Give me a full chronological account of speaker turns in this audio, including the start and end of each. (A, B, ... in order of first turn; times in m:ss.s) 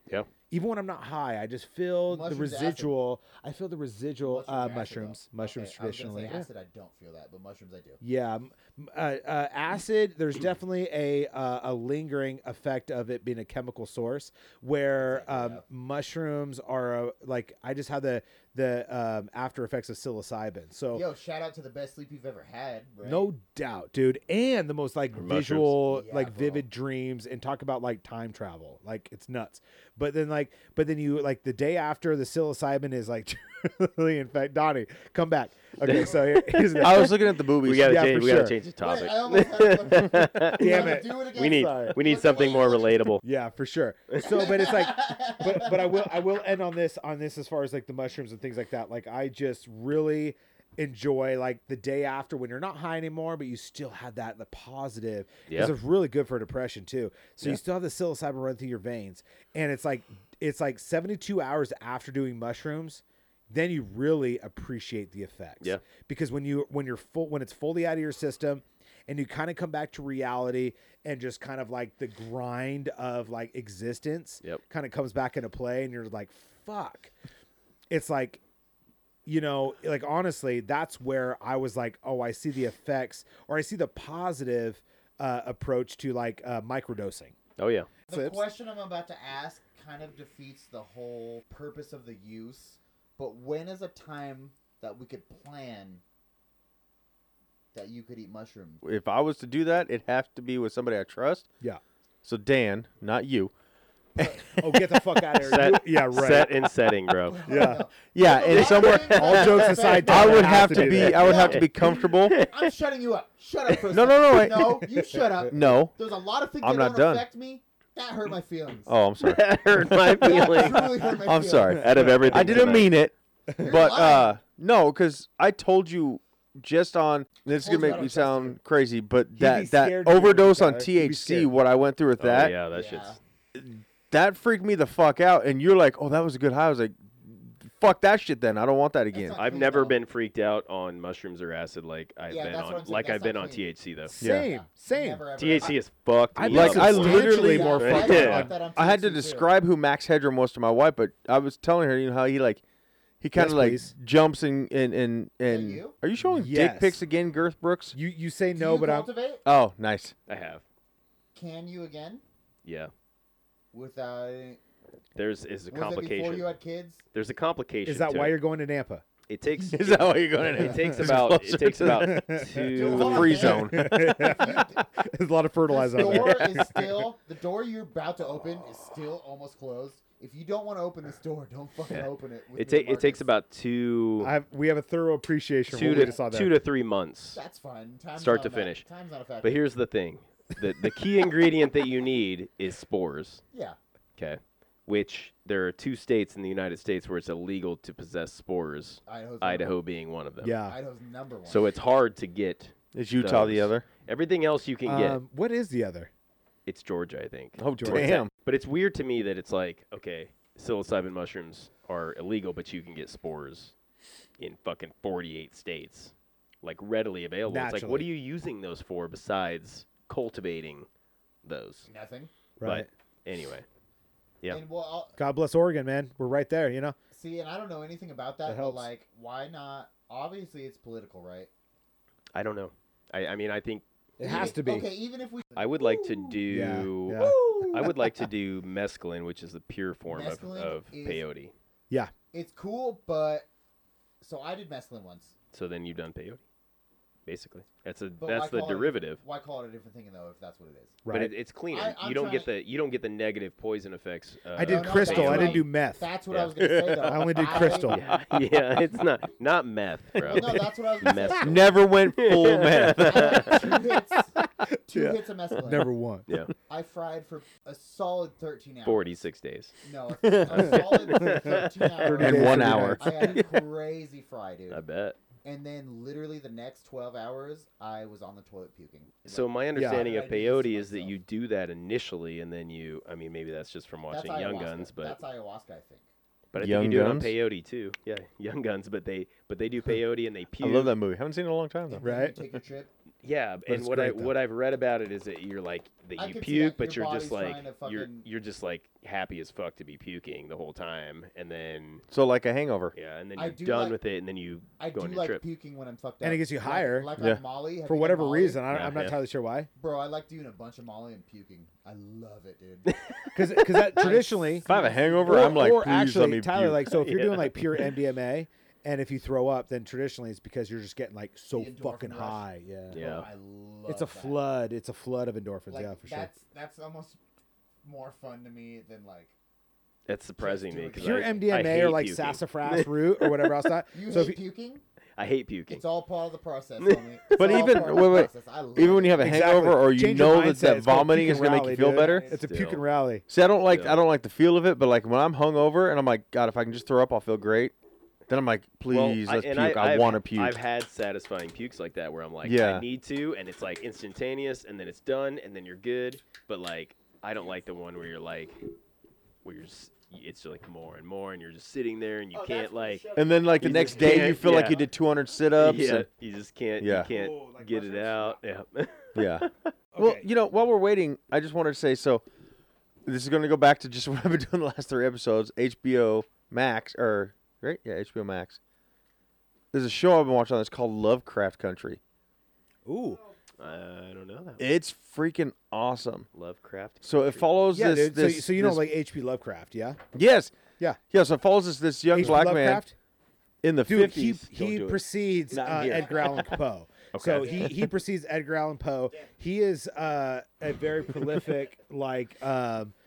0:00.5-0:06.5 A
0:02.1-0:02.9 B
0:04.2-0:08.0 B
0:08.0-0:21.0 A
0:15.0-0:15.6 B
0:20.9-0:23.3 B
0:23.0-0:37.2 A
0:25.2-0:25.8 C
0:25.8-0:26.7 B
0:35.8-0:43.2 C
0:35.9-0:36.2 B
0:36.8-0:38.2 D
0:37.8-0:38.6 A
0:38.8-0:43.2 B
0:40.5-0:42.0 A
0:43.2-1:17.1 A
0:44.2-0:46.1 B
0:55.5-0:55.7 C
1:17.9-1:18.4 A
1:19.3-1:27.4 A
1:27.6-1:27.9 C
1:28.1-1:36.0 B
1:28.1-1:28.4 A
1:37.7-1:38.8 B
1:38.8-1:41.5 D
1:42.2-1:43.5 D
1:44.5-1:46.6 A
1:45.4-1:47.4 C
1:47.2-1:59.0 B
1:47.5-1:47.8 A
1:48.1-1:52.4 D
1:48.5-1:52.7 C
1:49.1-1:51.4 A
1:53.9-1:55.0 D
1:55.0-1:55.2 A
1:55.5-1:56.0 D
1:56.6-1:57.3 D
1:58.9-2:12.6 D
1:59.2-2:01.2 C
2:00.2-2:02.9 B
2:01.8-2:02.9 C
2:01.9-2:02.5 A
2:03.5-2:03.8 A
2:03.6-2:04.4 B
2:07.5-2:08.6 B
2:09.4-2:11.5 A
2:12.2-2:13.2 C
2:12.5-2:13.2 B
2:13.6-2:19.4 D
2:19.1-2:20.0 B
2:19.4-2:24.1 C
2:22.3-2:23.7 B
2:24.1-2:25.2 A
2:24.2-2:25.8 B
2:25.4-2:28.5 C
2:26.4-2:28.6 A
2:26.5-2:32.6 D
2:26.7-2:29.5 B
2:33.2-2:38.0 D
2:33.3-2:33.9 A
2:35.5-2:36.0 B
2:36.2-2:37.0 A
2:37.9-2:39.1 A
2:38.6-2:39.4 B
2:39.4-2:40.1 D
2:40.3-2:40.6 C
2:41.4-2:42.2 B
2:42.6-2:42.9 C
2:43.7-2:44.6 B
2:45.2-2:46.6 C
2:45.7-2:47.0 B
2:47.1-2:48.4 C
2:47.9-2:49.0 A
2:49.3-2:53.6 C
2:49.6-2:50.6 B
2:49.7-2:54.1 D
2:50.6-2:51.1 A
2:52.0-2:56.8 A
2:52.7-2:54.9 B
2:55.7-3:03.3 B
3:01.9-3:04.3 C
3:04.2-3:06.5 A
3:05.7-3:07.4 C
3:05.8-3:06.2 B
3:07.3-3:09.6 B
3:08.2-3:08.9 C
3:09.4-3:13.4 C
3:14.2-3:20.6 C
3:19.1-3:19.7 B
3:20.4-3:20.8 A
3:20.6-3:21.7 B
3:21.5-3:25.2 C
3:22.9-3:23.8 D
3:24.9-3:26.1 A
3:26.7-3:33.7 C
3:27.6-3:28.3 D
3:27.8-3:28.1 A
3:34.4-3:40.9 C
3:37.5-3:38.1 A
3:41.4-3:41.9 C
3:41.9-3:42.3 B
3:42.6-3:42.9 A
3:42.6-3:43.6 C
3:44.5-3:45.2 B
3:45.2-3:47.0 A
3:47.1-3:51.5 B
3:48.5-3:48.9 A
3:52.3-3:53.8 C
3:54.2-3:54.9 A
3:54.2-3:56.4 B
3:55.6-4:01.5 C
3:56.5-3:57.9 A
3:57.2-3:58.0 B
4:00.1-4:01.2 B
4:02.3-4:03.5 B
4:04.2-4:05.3 B
4:05.5-4:06.4 C
4:07.3-4:09.2 C
4:08.2-4:11.0 B
4:11.0-4:11.3 A
4:11.1-4:15.7 C
4:11.7-4:12.5 B
4:14.5-4:16.1 A
4:14.6-4:18.2 B
4:16.3-4:17.0 C
4:16.6-4:17.1 D
4:17.0-4:18.0 A
4:17.5-4:23.7 C
4:20.2-4:21.6 B
4:21.4-4:23.7 D
4:23.0-4:25.9 B
4:24.9-4:26.3 A
4:26.7-4:29.1 B
4:28.8-4:29.7 C
4:29.8-4:34.8 B
4:30.2-4:31.0 D
4:30.6-4:31.6 C
4:31.4-4:33.0 A
4:32.2-4:33.3 D
4:34.7-4:35.2 C
4:35.4-4:41.2 B
4:39.2-4:45.2 C
4:39.8-4:40.0 A
4:44.1-4:46.1 B
4:46.5-4:51.0 C
4:46.6-4:47.3 D
4:50.6-4:52.0 D
4:51.9-4:52.9 B
4:52.0-4:52.4 A
4:53.2-5:02.0 C
4:53.7-4:54.3 A
4:56.2-4:58.3 B
5:02.1-5:02.9 D
5:02.9-5:05.4 C
5:03.4-5:04.0 B
5:04.8-5:08.8 B
5:06.2-5:07.1 A
5:07.9-5:09.7 A
5:08.7-5:09.1 C
5:09.8-5:12.9 B
5:12.9-5:14.0 C
5:13.3-5:14.7 A
5:14.0-5:15.7 B
5:14.6-5:16.8 D
5:15.2-5:23.0 A
5:16.9-5:17.9 C
5:21.5-5:24.4 B
5:22.9-5:23.3 C
5:23.9-5:26.3 A
5:25.7-5:27.2 B
5:27.8-5:29.3 B
5:30.1-5:33.5 C
5:30.4-5:31.5 B
5:31.0-5:34.4 A
5:33.9-5:34.8 B
5:35.2-5:35.8 C
5:35.7-5:39.4 B
5:37.4-5:42.3 D
5:37.4-5:37.8 A
5:39.2-5:43.2 A
5:42.1-5:42.4 B
5:42.1-5:42.8 C
5:43.3-5:47.7 D
5:43.7-5:44.0 C
5:48.3-5:50.6 D
5:48.9-5:58.6 C
5:52.4-5:52.9 D
5:59.4-6:03.0 C
6:02.3-6:04.3 B
6:03.2-6:06.1 D
6:03.4-6:04.8 A
6:03.6-6:04.8 C
6:05.6-6:09.7 C
6:06.8-6:07.1 D
6:07.1-6:08.4 A
6:09.2-6:09.5 D
6:09.9-6:10.3 A
6:10.0-6:12.2 D
6:13.1-6:18.6 D
6:19.7-6:22.0 D
6:22.9-6:23.2 A
6:23.6-6:24.6 C
6:24.6-6:26.3 D
6:26.3-6:27.5 C
6:27.0-6:28.8 D
6:27.7-6:30.0 A
6:30.1-6:30.5 D
6:31.1-6:32.8 D
6:32.1-6:32.9 A
6:33.6-6:36.6 D
6:33.8-6:42.9 A
6:35.7-6:36.5 B
6:37.1-6:37.8 C